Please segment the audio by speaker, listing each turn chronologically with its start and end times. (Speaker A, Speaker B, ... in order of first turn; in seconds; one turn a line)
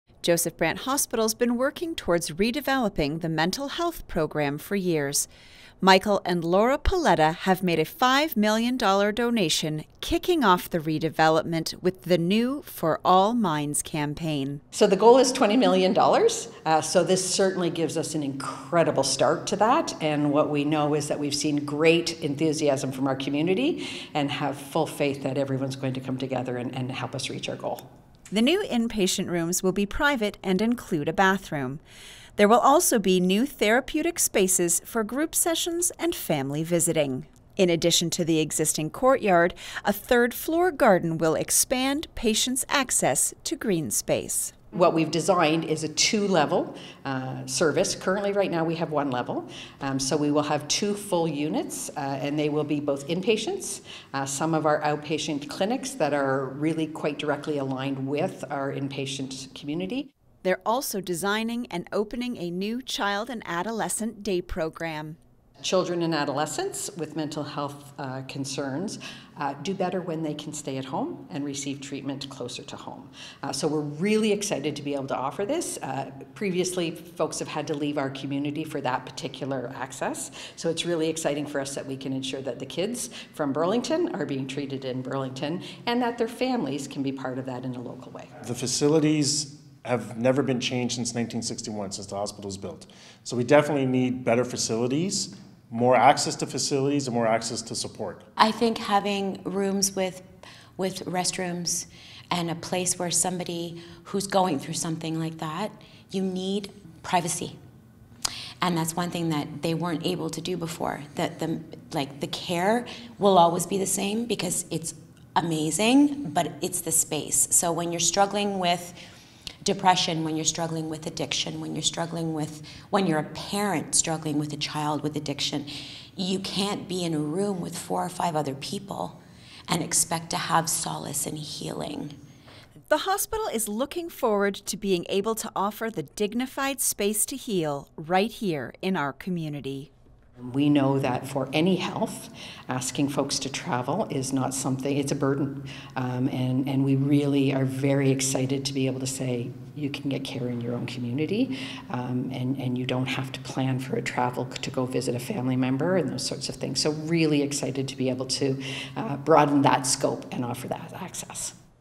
Speaker A: 0.2-5.3
Speaker A: 5.8-14.6
Speaker B: 14.7-27.9
Speaker A: 28.3-31.8
Speaker A: 32.4-44.5
Speaker B: 44.7-60.1
Speaker A: 60.4-65.2
Speaker B: 65.6-88.3
Speaker C: 88.4-98.2
Speaker D: 98.3-100.2
Speaker D: 100.8-107.6
Speaker D: 108.6-119.0
Speaker D: 119.6-132.2
Speaker A: 132.9-139.9
Speaker B: 140.4-161.5